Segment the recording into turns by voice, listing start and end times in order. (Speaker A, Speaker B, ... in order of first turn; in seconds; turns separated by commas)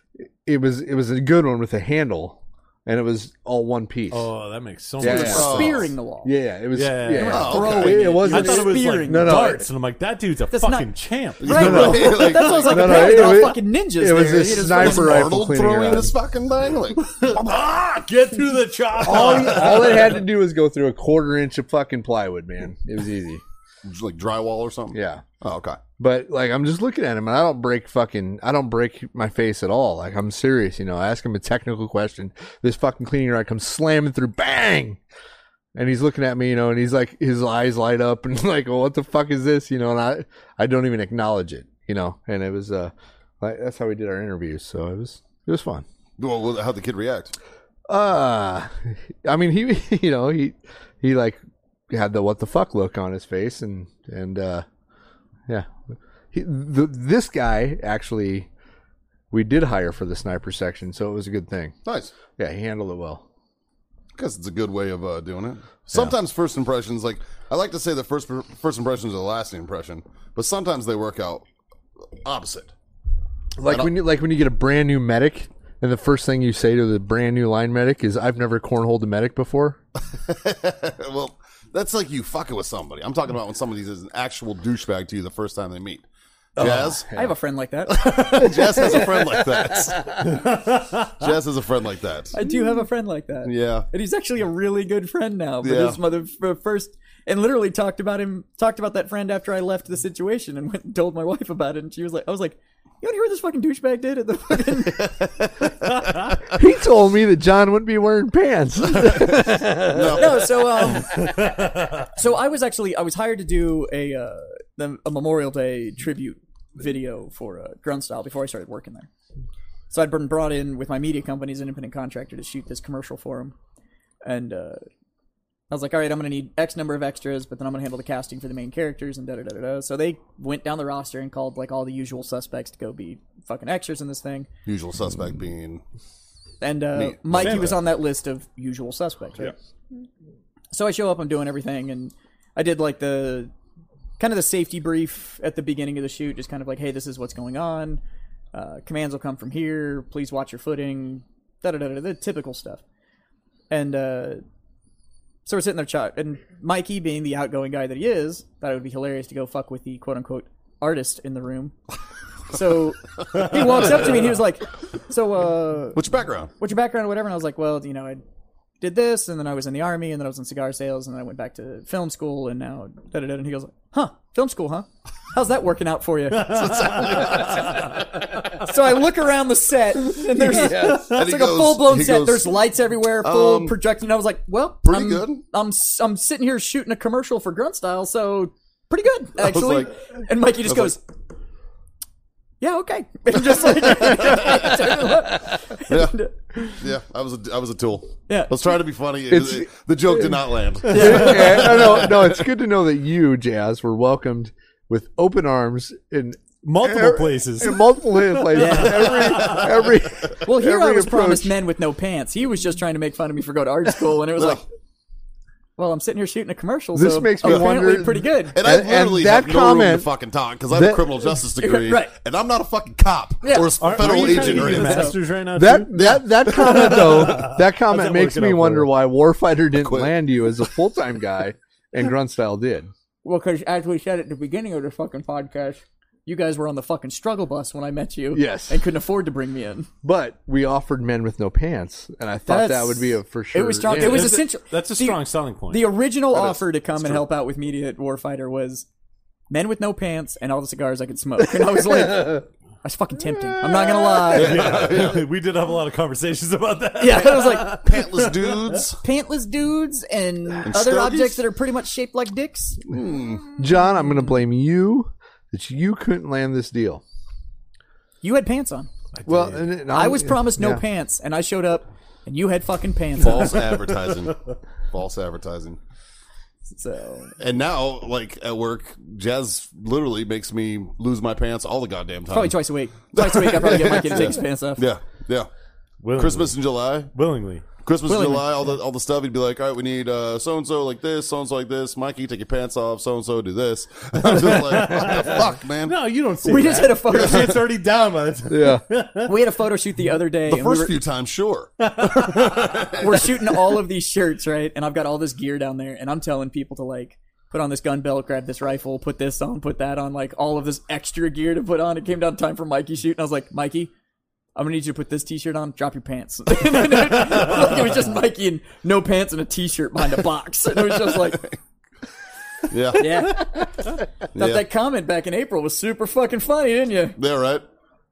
Speaker A: 0.4-4.3, Speaker B: 4.1-5.8, Speaker C: 5.0-6.3, Speaker D: 5.0-5.9, Speaker A: 5.0-5.7, Speaker A: 6.2-9.7, Speaker B: 6.7-12.3, Speaker C: 7.1-9.6, Speaker D: 7.2-8.2, Speaker C: 10.5-15.3, Speaker D: 11.4-13.5, Speaker A: 11.6-16.1, Speaker D: 14.4-17.2, Speaker B: 17.0-20.2, Speaker A: 19.0-23.4, Speaker D: 23.8-25.8, Speaker A: 24.9-25.2, Speaker A: 26.0-35.0, Speaker A: 35.7-45.8, Speaker D: 46.2-47.4, Speaker A: 47.9-51.4, Speaker A: 51.9-54.6, Speaker A: 56.3-58.5, Speaker A: 59.3-61.8, Speaker D: 61.9-62.1, Speaker A: 62.3-63.2, Speaker D: 64.1-71.5, Speaker D: 72.2-72.7, Speaker A: 73.6-79.8, Speaker D: 73.7-73.9, Speaker D: 80.1-86.0, Speaker D: 86.6-87.0, Speaker A: 86.6-87.4, Speaker C: 87.1-88.5, Speaker D: 87.9-90.5, Speaker A: 88.3-90.2, Speaker B: 90.2-91.2, Speaker D: 91.1-92.3, Speaker C: 92.3-105.2, Speaker D: 93.5-93.9, Speaker D: 95.6-96.0, Speaker D: 105.0-106.4, Speaker A: 106.5-110.4, Speaker D: 108.9-111.0, Speaker C: 110.1-119.1, Speaker B: 111.2-112.1, Speaker C: 119.9-123.5, Speaker C: 124.2-124.8, Speaker C: 125.7-134.5, Speaker D: 134.7-135.8, Speaker C: 136.6-139.6, Speaker D: 136.9-137.8, Speaker B: 137.3-137.7, Speaker C: 140.7-143.5, Speaker C: 144.2-148.0, Speaker C: 148.5-152.8, Speaker C: 153.7-154.4, Speaker C: 155.4-161.8, Speaker C: 162.5-168.2, Speaker D: 165.9-166.5, Speaker C: 168.8-176.7, Speaker D: 176.4-178.0, Speaker B: 176.4-178.2, Speaker C: 178.6-191.0, Speaker A: 180.4-181.1, Speaker D: 180.9-182.6, Speaker D: 183.2-183.8, Speaker D: 184.8-185.4, Speaker D: 189.4-189.9, Speaker D: 190.6-190.9, Speaker C: 192.6-196.8, Speaker D: 194.0-194.6, Speaker D: 195.9-196.2, Speaker D: 196.7-202.4, Speaker C: 198.3-198.6, Speaker A: 199.3-211.6, Speaker C: 200.9-201.9, Speaker B: 206.6-209.7, Speaker C: 208.5-209.6, Speaker D: 209.2-210.2, Speaker C: 210.4-214.7, Speaker D: 214.3-214.6, Speaker C: 215.8-218.6, Speaker A: 216.9-220.1, Speaker D: 218.5-225.2, Speaker A: 220.7-221.1, Speaker C: 221.5-222.1, Speaker C: 223.4-225.2, Speaker B: 223.8-228.9, Speaker A: 225.6-232.9, Speaker D: 225.9-227.5, Speaker D: 229.7-230.7, Speaker C: 233.2-239.9, Speaker A: 238.3-238.8, Speaker A: 240.0-244.4, Speaker C: 242.5-248.9, Speaker B: 243.9-246.0, Speaker D: 246.3-247.2, Speaker C: 249.5-254.7, Speaker A: 253.8-254.2, Speaker B: 254.2-258.8, Speaker D: 254.3-255.3, Speaker C: 257.0-257.8, Speaker D: 257.7-259.0, Speaker C: 259.0-262.8, Speaker D: 260.6-261.4, Speaker D: 262.9-263.5, Speaker A: 263.6-267.0, Speaker C: 268.2-268.9, Speaker B: 269.1-269.8, Speaker A: 269.3-270.8, Speaker C: 269.9-273.7, Speaker D: 273.2-274.4, Speaker D: 274.9-275.8, Speaker C: 276.7-277.3, Speaker D: 277.4-282.6, Speaker C: 282.3-284.9, Speaker D: 283.1-285.5, Speaker B: 286.0-287.7, Speaker D: 286.1-287.1, Speaker D: 287.8-296.0, Speaker C: 288.1-288.5, Speaker B: 294.2-299.3, Speaker C: 296.4-297.6, Speaker A: 298.5-298.8, Speaker C: 299.2-301.0, Speaker D: 300.5-303.7, Speaker B: 301.8-302.9, Speaker C: 303.0-313.9, Speaker C: 314.6-321.4, Speaker D: 321.1-321.6, Speaker D: 322.7-323.6, Speaker C: 322.9-323.7, Speaker D: 324.3-324.6, Speaker C: 324.3-327.2, Speaker D: 327.2-327.6